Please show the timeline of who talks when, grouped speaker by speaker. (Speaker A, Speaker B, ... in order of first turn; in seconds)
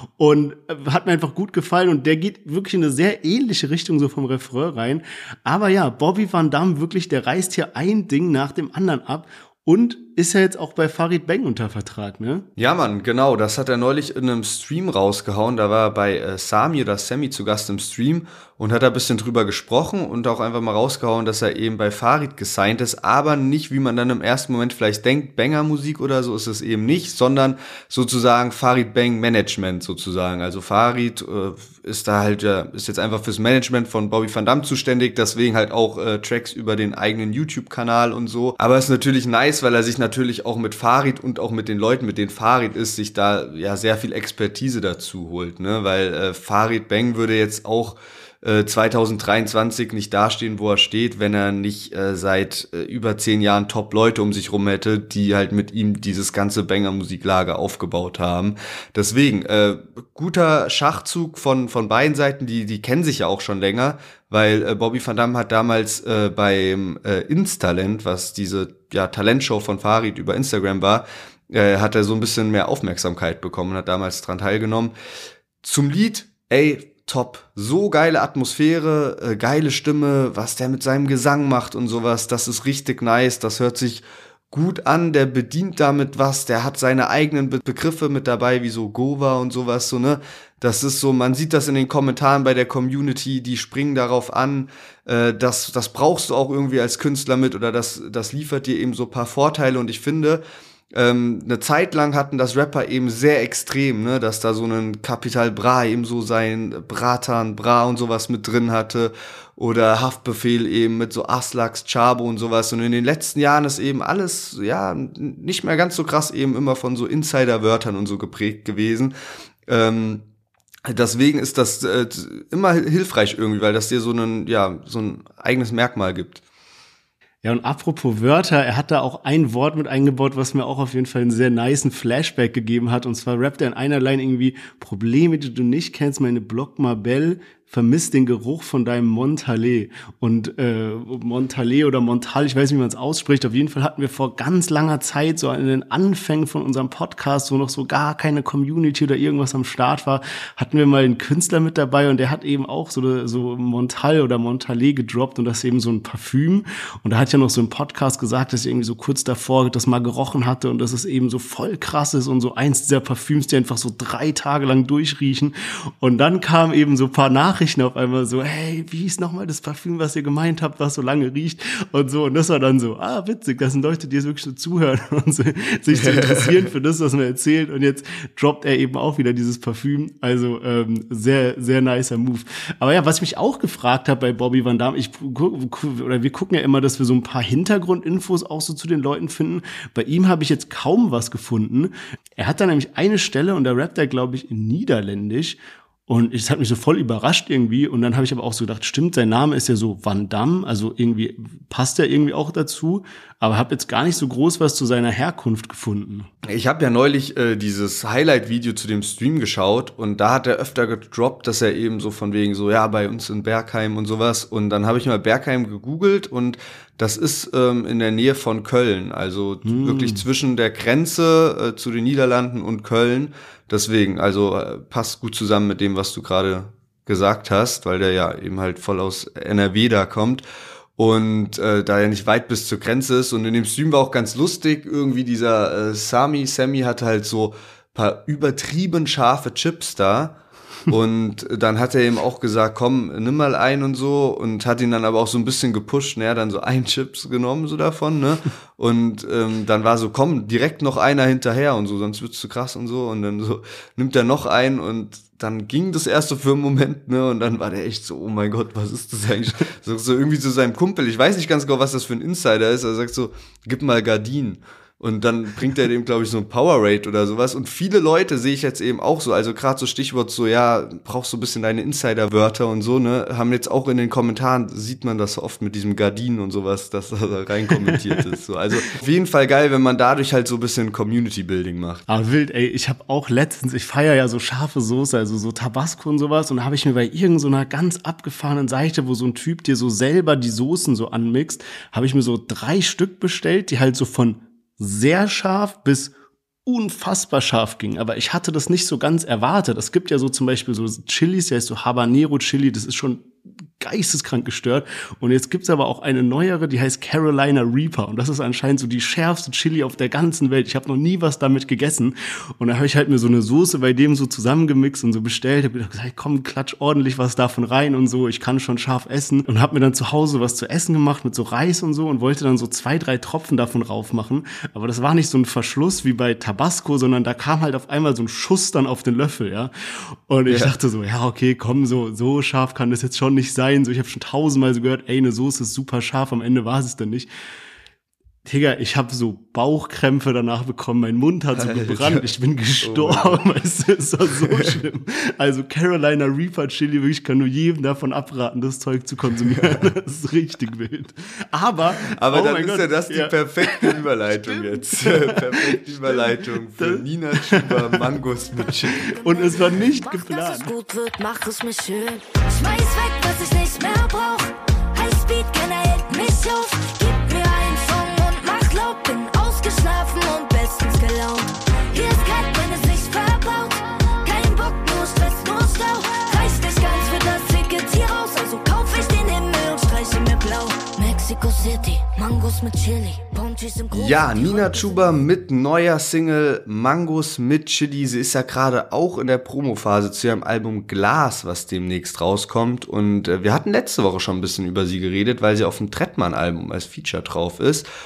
Speaker A: 0.2-12.4, 127.4-195.6, 196.1-206.3, 219.6-220.2, 282.1-296.1, 296.6-303.3, 303.8-337.3, 338.4-358.1, 358.9-360.7
Speaker B: 12.6-74.9, 75.6-119.1, 119.7-120.2, 120.8-126.4, 175.9-176.6, 206.4-230.4, 231.0-240.4, 240.9-282.0, 330.4-330.7, 341.5-342.3, 342.8-343.4, 349.5-349.8, 352.1-359.1, 383.9-397.9
Speaker C: 359.1-385.2